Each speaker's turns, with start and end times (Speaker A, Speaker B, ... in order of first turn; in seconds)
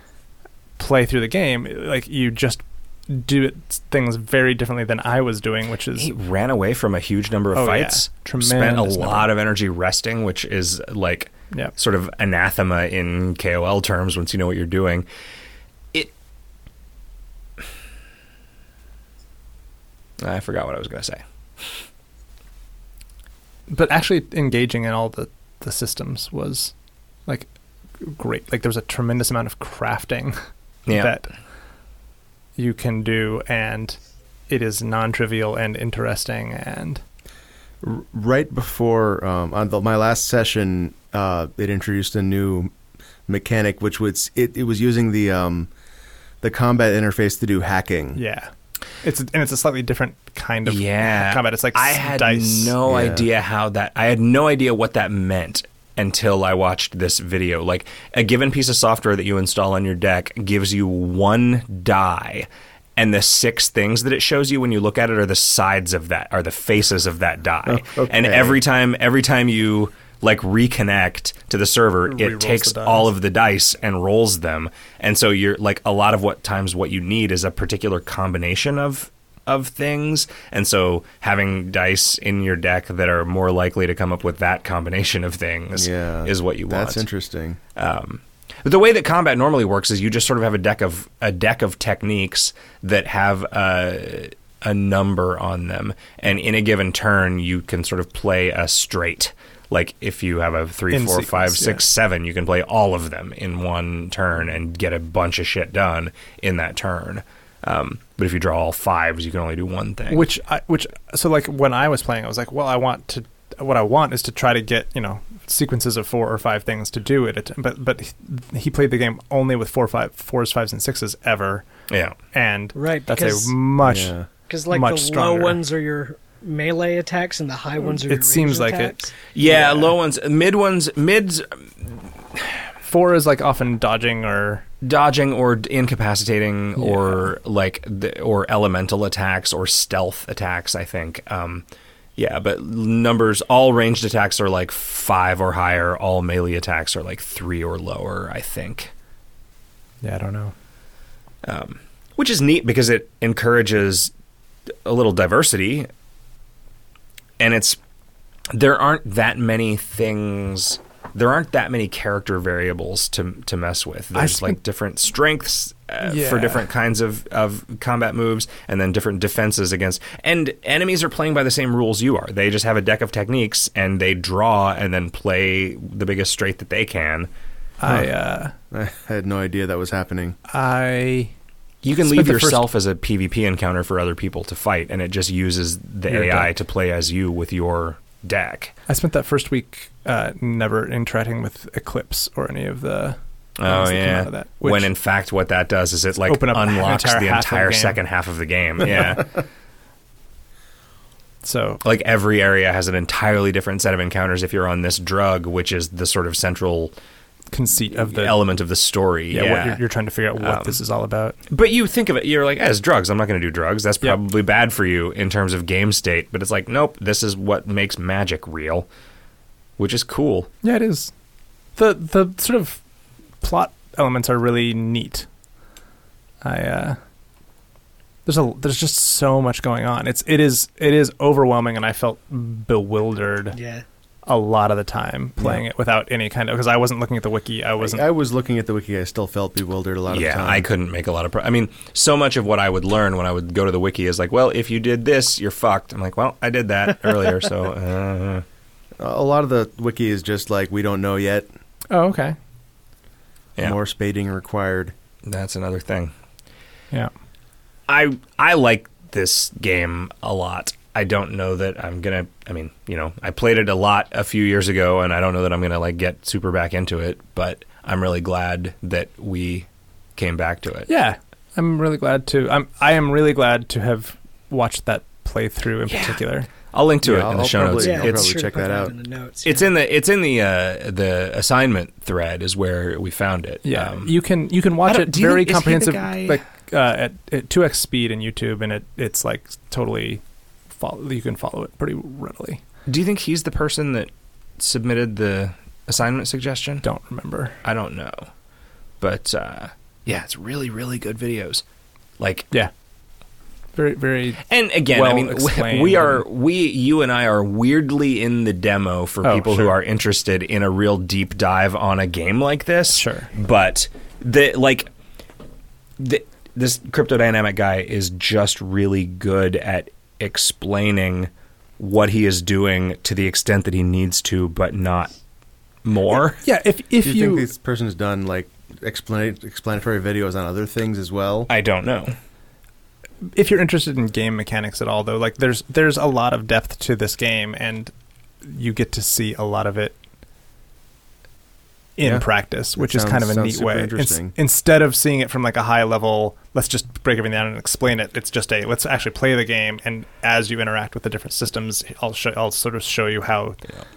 Speaker A: 0.8-6.1, 7.5-9.3, 23.7-26.7, 27.2-31.3, 32.6-37.0, 48.1-52.7, 72.0-73.1, 100.9-101.8, 110.1-121.7, 122.3-124.2, 124.7-125.6, 127.8-129.9, 132.8-134.6, 136.8-137.3, 150.0-150.5, 164.1-164.6, 166.0-166.6, 177.8-178.5, 180.5-181.3, 182.0-182.7, 186.1-186.5, 188.9-194.9, 196.2-198.0, 201.4-201.8, 207.5-208.4, 209.3-211.4, 220.6-221.1, 221.8-222.8, 223.4-225.3, 226.4-227.0, 228.2-233.6, 234.2-238.0, 251.9-252.4, 270.9-276.5, 283.6-292.6, 296.8-297.6, 303.7-306.2, 309.2-309.7, 312.9-313.3, 326.4-327.5, 333.2-340.0, 342.0-353.6
Speaker B: 6.0-15.1, 20.2-21.8, 30.9-31.2, 50.6-87.0, 87.7-110.3, 121.9-122.2, 129.3-132.6, 134.8-141.6, 142.2-148.9, 151.4-154.1, 154.8-155.9, 157.4-157.8, 158.5-177.3, 181.8-188.7, 193.6-199.3, 201.8-206.9, 207.9-209.8, 210.4-210.8, 211.5-218.9, 219.8-220.5, 240.1-248.4, 255.2-256.1, 257.9-270.9, 275.9-278.4, 279.4-284.1, 284.8-286.4, 292.9-296.9, 297.6-298.3, 299.0-301.6, 302.2-302.5, 304.5-314.9, 316.0-325.1, 325.8-326.4, 331.5-332.1
Speaker C: 37.8-42.7, 43.3-45.7, 46.4-48.2, 52.9-53.3, 67.7-68.6, 85.7-87.6, 123.8-124.3, 178.7-180.3, 235.4-235.6, 237.8-240.7, 249.0-251.5, 253.6-254.9, 277.0-278.9, 327.0-331.5, 342.0-344.3
Speaker D: 122.7-123.5, 124.5-129.1, 233.5-233.8, 277.8-279.7